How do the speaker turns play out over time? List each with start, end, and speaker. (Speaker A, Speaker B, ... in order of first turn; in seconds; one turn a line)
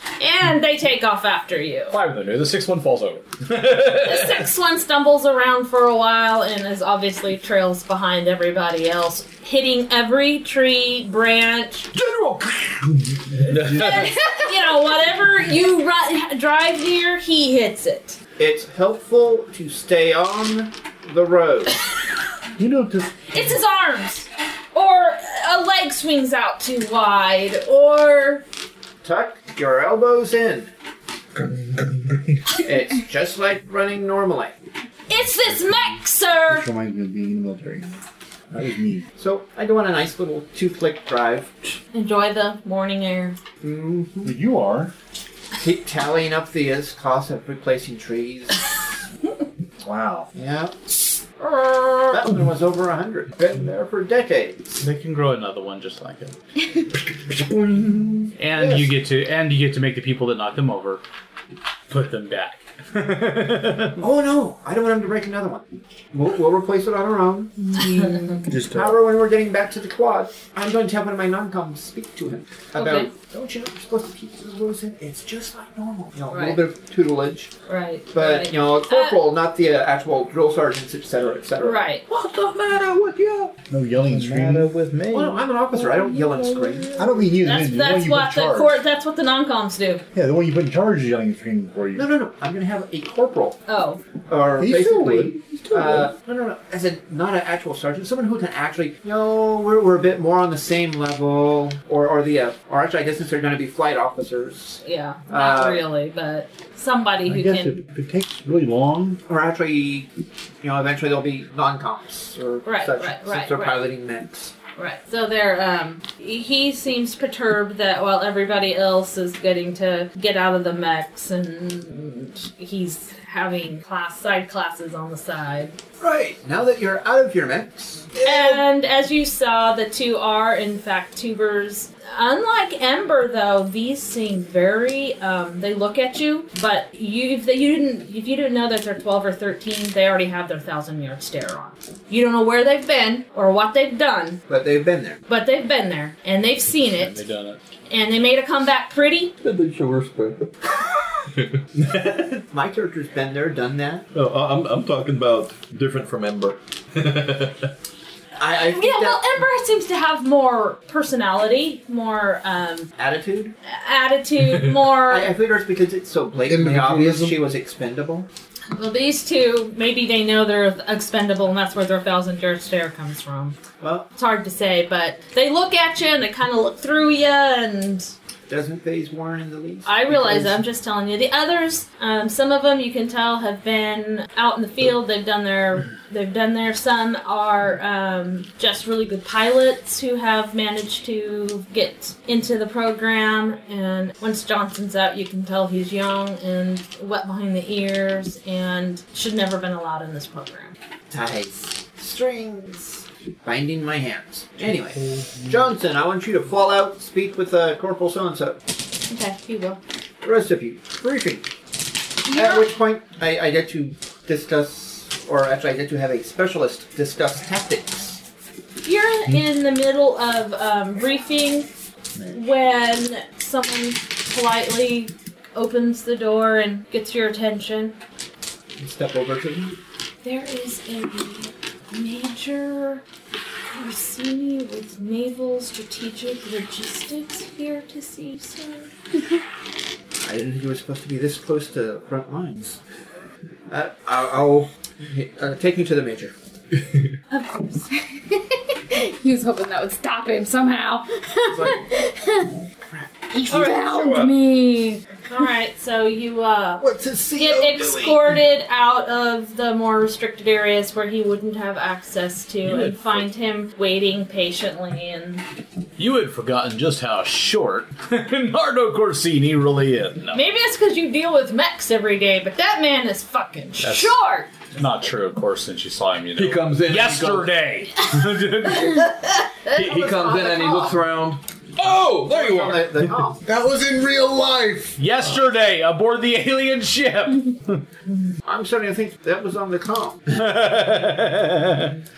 Speaker A: 0.2-1.9
Speaker B: 1.9-4.4
Speaker A: 3.9-11.9
Speaker B: 11.9-12.7
Speaker B: 13.4-14.1
Speaker A: 13.6-18.2
Speaker C: 18.4-21.8
Speaker D: 22.6-23.5
Speaker A: 23.3-28.4
Speaker C: 29.0-30.7
Speaker C: 32.5-34.5
Speaker A: 35.1-36.7
Speaker D: 36.5-38.0
Speaker D: 38.5-39.0
Speaker C: 39.1-41.8
Speaker A: 41.9-43.4
Speaker C: 43.6-44.4
Speaker D: 44.2-44.9
Speaker C: 45.6-48.7
Speaker D: 49.8-50.3
Speaker C: 50.3-50.7
Speaker A: 51.4-52.2
Speaker C: 52.1-54.8
Speaker B: 54.8-56.3
Speaker B: 58.4-61.0
Speaker C: 58.5-58.9
Speaker B: 61.9-64.0
Speaker C: 64.0-77.5
Speaker D: 68.5-69.0
Speaker A: 72.7-73.1
Speaker A: 76.3-76.6
Speaker A: 77.7-79.2
Speaker C: 78.1-81.8
Speaker A: 81.6-82.0
Speaker E: 82.1-83.5
Speaker D: 83.7-85.4
Speaker C: 84.1-87.3
Speaker E: 84.3-85.4
Speaker D: 87.0-88.8
Speaker A: 87.4-90.0
Speaker D: 90.1-92.1
Speaker C: 91.9-93.6
Speaker A: 93.7-94.0
Speaker C: 94.3-105.8
Speaker D: 94.5-96.1
Speaker A: 104.8-107.8
Speaker D: 107.2-109.2
Speaker C: 109.2-110.1
Speaker C: 110.6-114.5
Speaker A: 112.6-113.8
Speaker A: 114.8-125.8
Speaker C: 126.0-128.6
Speaker A: 128.2-144.4
Speaker C: 144.5-145.2
Speaker A: 145.3-147.2
Speaker B: 146.7-147.6
Speaker A: 147.9-149.3
Speaker E: 149.4-150.7
Speaker E: 151.3-152.4
Speaker C: 152.5-154.1
Speaker E: 154.1-157.7
Speaker C: 158.4-159.3
Speaker A: 158.7-162.9
Speaker C: 163.0-163.5
Speaker A: 163.7-165.3
Speaker C: 165.1-168.3
Speaker F: 166.4-167.4
Speaker A: 168.7-173.6
Speaker C: 173.8-174.1
Speaker A: 174.2-178.1
Speaker C: 178.5-180.6
Speaker A: 179.8-200.7
Speaker C: 201.1-208.6
Speaker A: 209.1-209.8
Speaker C: 210.2-211.5
Speaker A: 212.2-212.7
Speaker C: 212.3-218.2
Speaker A: 218.8-221.7
Speaker A: 222.3-228.0
Speaker C: 228.8-229.8
Speaker A: 230.2-233.0
Speaker A: 233.7-238.9
Speaker C: 240.2-242.8
Speaker C: 243.7-246.3
Speaker A: 247.3-247.9
Speaker G: 248.9-252.4
Speaker C: 251.5-251.8
Speaker C: 252.9-254.3
Speaker G: 253.3-255.0
Speaker A: 255.2-265.4
Speaker C: 256.8-258.4
Speaker B: 262.6-263.3
Speaker B: 266.0-270.4
Speaker A: 270.3-274.5
Speaker B: 273.8-274.1
Speaker B: 274.7-279.1
Speaker E: 276.4-277.5
Speaker A: 279.6-281.0
Speaker E: 279.7-282.8
Speaker B: 281.8-282.1
Speaker C: 282.3-283.4
Speaker F: 283.4-285.0
Speaker B: 285.0-287.8
Speaker C: 288.4-290.3
Speaker B: 290.3-291.9